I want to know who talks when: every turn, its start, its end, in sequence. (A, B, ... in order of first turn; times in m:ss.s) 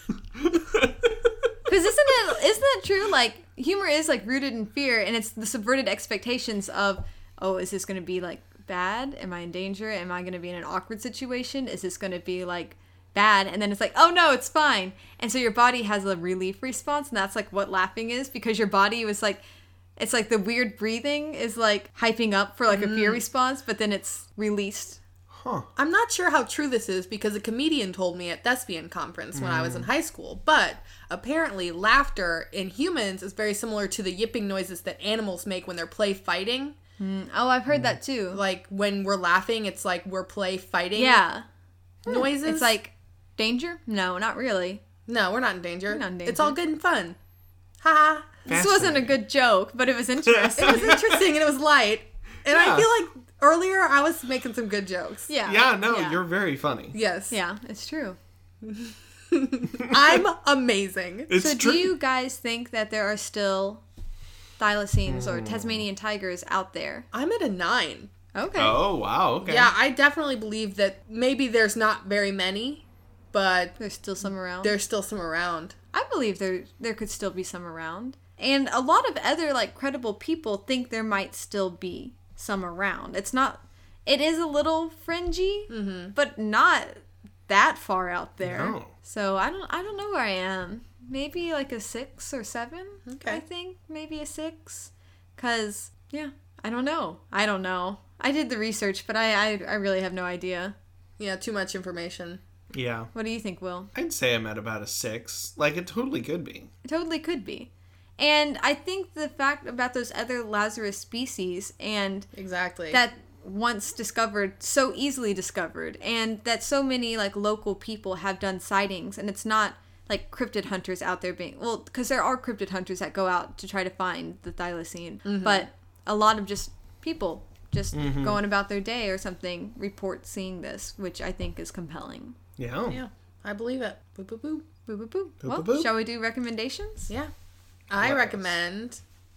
0:00.3-0:01.5 A
0:01.7-0:19.4 B
0:20.0-0:25.0 B
0:22.7-0:23.2 C
0:25.3-0:25.7 A
0:25.8-0:36.8 C
0:29.3-0:29.9 A
0:37.0-0:38.4 B
0:38.3-0:41.2 C
0:41.0-0:41.4 B
0:42.0-0:42.8 C
0:42.1-0:44.8 B
0:45.1-0:47.2 C
0:45.9-0:46.6 B
0:47.8-0:48.4 C
0:48.5-0:51.0 B
0:48.5-0:49.1 A
0:50.3-0:51.0 A
0:50.6-0:55.3 C
0:52.4-0:52.9 A
0:55.3-0:56.2 B
0:55.4-0:57.0 A
0:56.9-0:57.4 C
0:57.3-0:58.2 B
0:58.6-1:01.3 C
1:01.3-1:01.9 A
1:01.3-1:03.8 B
1:04.6-1:07.1 B
1:05.0-1:05.8 A
1:07.1-1:08.1 C
1:08.3-1:08.8 B
1:08.6-1:09.7 A
1:09.4-1:13.8 C
1:13.8-1:14.7 B
1:14.6-1:15.7 C
1:15.9-1:40.7 B
1:25.7-1:26.1 C
1:28.4-1:28.9 A
1:33.1-1:33.4 C
1:41.2-1:42.4 C
1:42.7-1:43.1 A
1:43.1-1:43.9 B
1:43.9-1:46.7 A
1:46.8-1:52.3 B
1:52.3-1:53.0 C
1:52.9-2:12.4 B
2:05.2-2:05.6 C
2:07.9-2:08.4 A
2:12.6-2:13.0 A
2:12.9-2:14.6 C
2:14.9-2:17.1 B
2:15.4-2:15.9 A
2:17.9-2:19.0 C
2:18.0-2:18.5 A